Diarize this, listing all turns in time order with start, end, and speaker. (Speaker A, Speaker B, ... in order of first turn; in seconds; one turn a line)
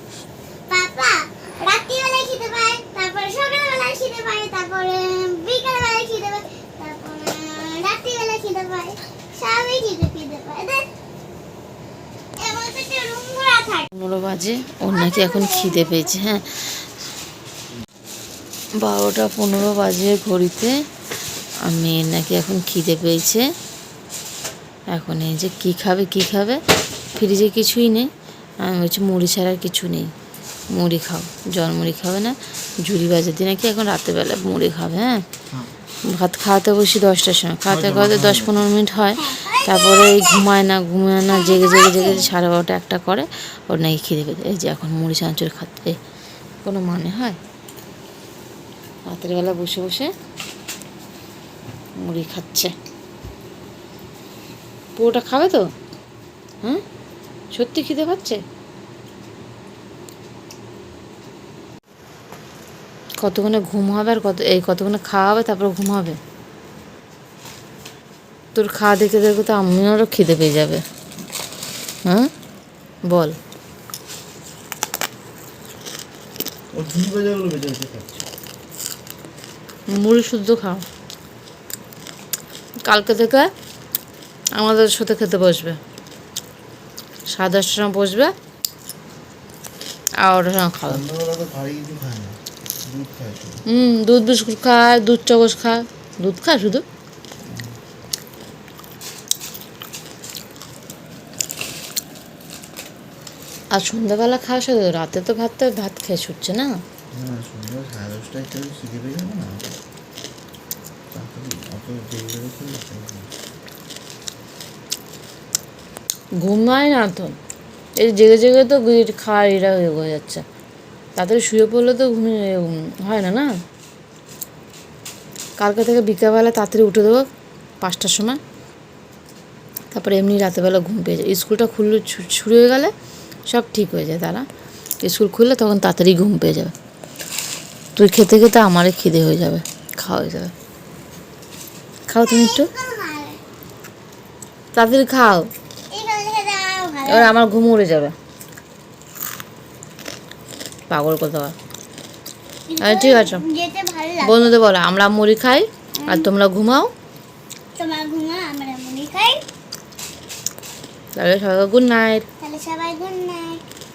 Speaker A: 0.7-10.8
Speaker A: 12.4-13.9
Speaker B: 13.9-16.8
Speaker A: 14.9-16.1
Speaker B: 18.8-20.7
Speaker B: 21.6-23.4
Speaker B: 24.9-26.6
Speaker B: 27.2-28.1
Speaker B: 28.6-30.1
Speaker B: 30.7-35.2
Speaker B: 36.1-46.0
Speaker C: 37.7-38.6
Speaker A: 39.2-40.4
Speaker A: 41.3-42.3
Speaker B: 46.6-47.4
Speaker B: 49.1-50.1
Speaker B: 52.0-52.7
Speaker B: 55.0-55.6
Speaker B: 57.5-58.4
Speaker B: 63.2-66.2
Speaker B: 68.5-70.8
Speaker B: 73.1-73.4
Speaker C: 76.7-78.2
Speaker B: 79.9-80.8
Speaker B: 82.9-83.5
Speaker B: 84.5-85.8
Speaker B: 87.3-88.3
Speaker B: 90.2-91.0
Speaker C: 90.9-93.6
Speaker B: 93.7-96.8
Speaker C: 97.5-97.7
Speaker B: 103.7-106.8
Speaker C: 107.1-109.7
Speaker C: 111.1-113.3
Speaker B: 116.4-117.4
Speaker B: 118.0-120.4
Speaker B: 121.2-123.5
Speaker B: 125.6-127.3
Speaker B: 127.8-128.4
Speaker B: 129.9-132.9
Speaker B: 133.5-134.4
Speaker B: 135.0-136.7
Speaker B: 138.0-140.5
Speaker B: 142.1-142.7
Speaker A: 142.2-143.4
Speaker B: 144.8-145.5
Speaker A: 145.9-147.3
Speaker B: 147.1-148.1
Speaker B: 150.9-151.6
Speaker A: 152.7-154.5
Speaker B: 152.8-153.4
Speaker B: 154.2-156.9
Speaker A: 156.0-156.3
Speaker A: 157.8-159.4
Speaker B: 161.2-162.2
Speaker A: 162.4-163.6